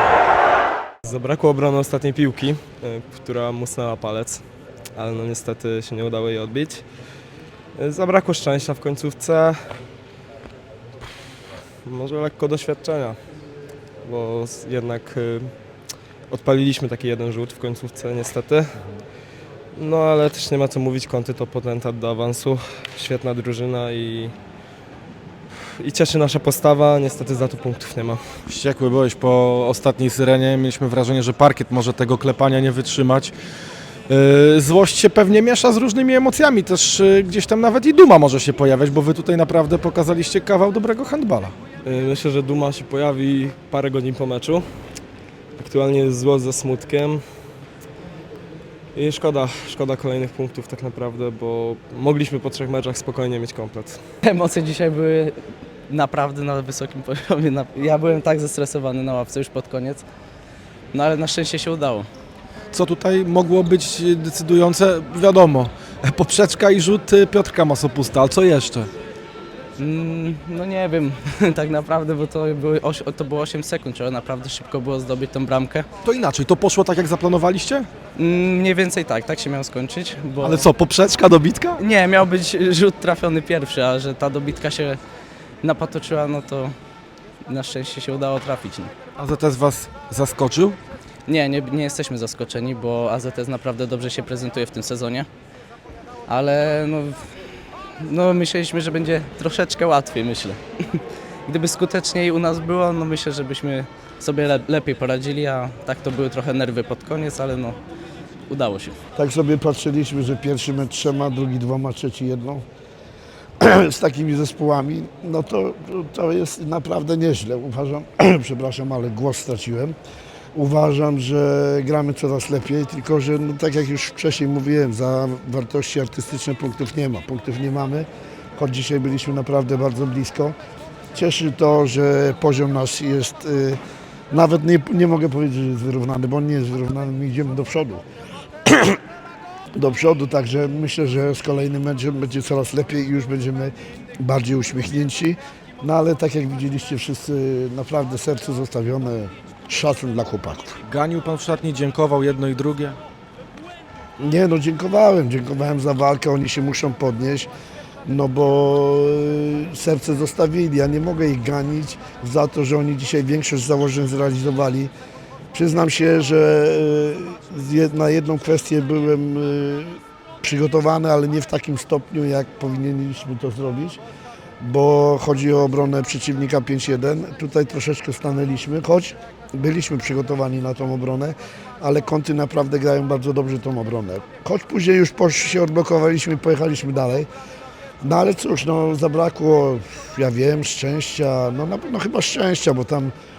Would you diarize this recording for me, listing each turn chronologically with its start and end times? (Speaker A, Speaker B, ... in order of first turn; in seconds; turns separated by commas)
Speaker A: 1.0-6.9, Speaker A: 7.8-9.8, Speaker A: 11.8-13.2, Speaker A: 14.0-18.9, Speaker A: 19.8-24.3, Speaker A: 25.8-28.4, Speaker B: 28.5-33.3, Speaker B: 34.1-41.5, Speaker A: 41.9-44.6, Speaker A: 45.6-47.4, Speaker A: 48.9-54.0, Speaker C: 54.2-60.0, Speaker C: 60.9-62.1, Speaker B: 62.7-68.9, Speaker C: 69.8-75.9, Speaker B: 76.0-77.9, Speaker C: 78.2-80.7, Speaker B: 80.4-81.8, Speaker C: 81.8-85.0, Speaker C: 85.6-86.7, Speaker C: 87.5-88.9, Speaker B: 89.2-90.8, Speaker C: 91.3-95.3, Speaker C: 96.3-97.3, Speaker C: 98.0-107.8, Speaker C: 108.5-109.0, Speaker D: 109.2-112.6, Speaker D: 113.6-120.0, Speaker D: 120.5-130.6, Speaker D: 131.1-133.8, Speaker D: 134.3-138.0, Speaker D: 138.7-139.0, Speaker D: 139.8-150.8, Speaker B: 150.8-153.0, Speaker D: 154.2-157.5, Speaker D: 158.1-164.9, Speaker D: 165.5-174.0, Speaker D: 174.6-187.3, Speaker D: 188.0-193.1